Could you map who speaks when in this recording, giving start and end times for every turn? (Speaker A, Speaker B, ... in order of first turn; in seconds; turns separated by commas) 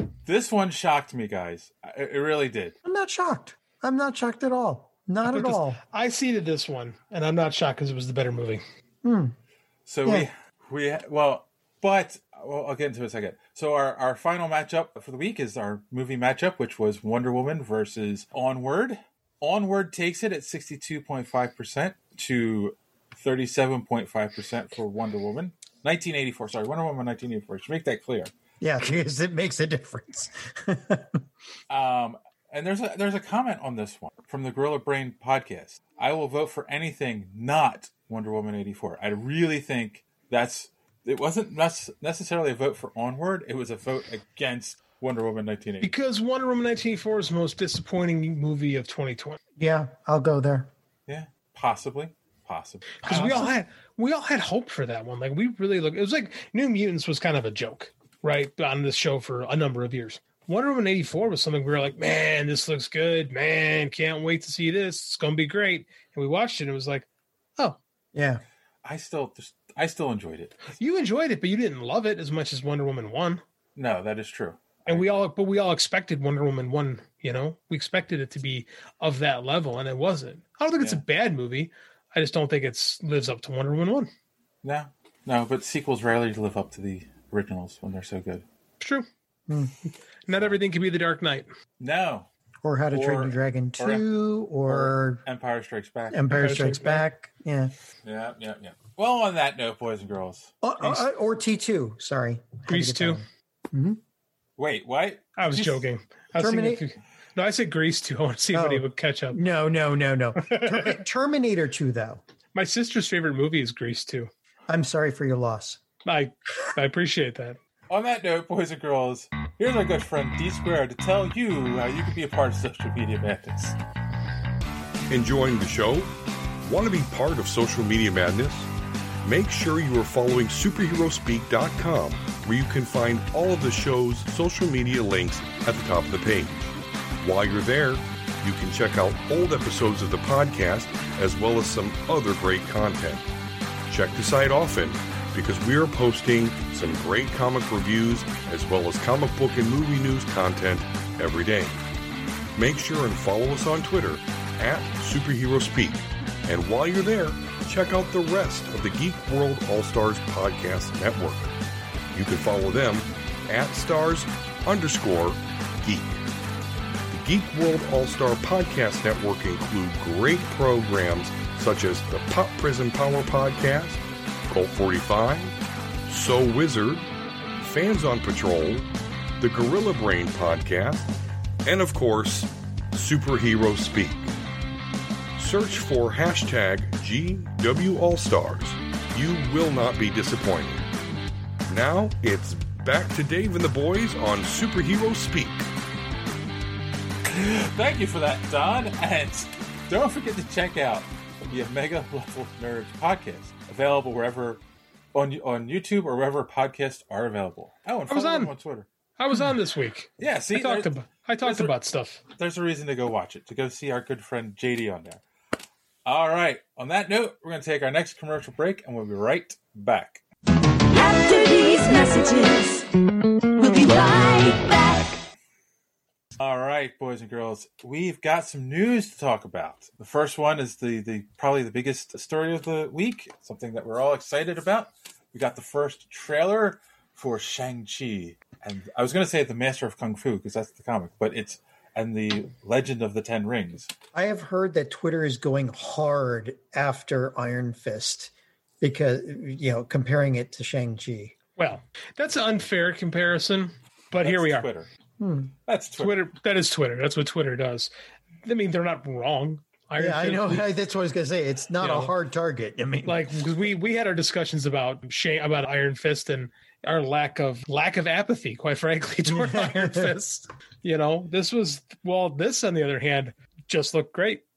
Speaker A: 0.2-2.8, Speaker B: 2.9-5.8, Speaker C: 5.2-8.6, Speaker B: 9.0-9.3, Speaker A: 9.9-28.3, Speaker B: 28.6-31.2, Speaker A: 31.7-45.9, Speaker C: 45.8-49.4, Speaker B: 49.6-50.7, Speaker A: 51.1-53.5, Speaker C: 53.0-67.1, Speaker B: 53.1-53.5, Speaker B: 68.1-68.4, Speaker A: 68.8-70.7, Speaker C: 70.7-73.4, Speaker A: 73.8-75.1, Speaker C: 74.9-84.1, Speaker A: 84.6-88.5, Speaker C: 88.8-89.1, Speaker B: 89.5-89.7, Speaker C: 90.3-91.5, Speaker A: 91.8-92.3, Speaker B: 92.6-95.2, Speaker A: 92.9-94.1, Speaker A: 94.6-96.2, Speaker B: 96.1-97.7, Speaker C: 96.3-97.1, Speaker A: 98.0-100.5, Speaker B: 100.6-104.0, Speaker C: 102.7-103.2, Speaker A: 104.6-105.4, Speaker C: 105.4-109.4, Speaker B: 106.4-106.8, Speaker B: 108.5-112.2, Speaker C: 110.4-111.0, Speaker C: 112.5-114.3, Speaker B: 114.7-115.8, Speaker C: 116.0-117.6, Speaker A: 117.9-123.8, Speaker D: 125.1-128.7, Speaker D: 129.2-143.3, Speaker D: 143.9-151.8, Speaker D: 152.6-161.5, Speaker D: 162.1-166.2, Speaker D: 167.1-175.6, Speaker D: 176.1-177.1, Speaker D: 177.6-178.9, Speaker D: 179.4-181.1, Speaker D: 181.7-184.3, Speaker D: 185.4-190.9, Speaker D: 191.7-195.7, Speaker A: 197.2-204.6, Speaker A: 205.1-208.9, Speaker C: 208.1-208.5, Speaker C: 209.2-212.2, Speaker A: 210.2-211.7, Speaker A: 212.4-215.2, Speaker A: 216.1-220.2, Speaker E: 220.9-222.9, Speaker E: 223.6-225.2, Speaker A: 226.4-243.9, Speaker B: 244.1-251.3, Speaker C: 251.6-254.7, Speaker A: 254.2-254.9, Speaker B: 255.2-255.6, Speaker A: 255.7-256.2, Speaker C: 256.0-257.9, Speaker C: 258.4-260.6, Speaker B: 260.0-263.2, Speaker C: 261.8-262.1, Speaker C: 263.1-274.4, Speaker B: 269.2-270.2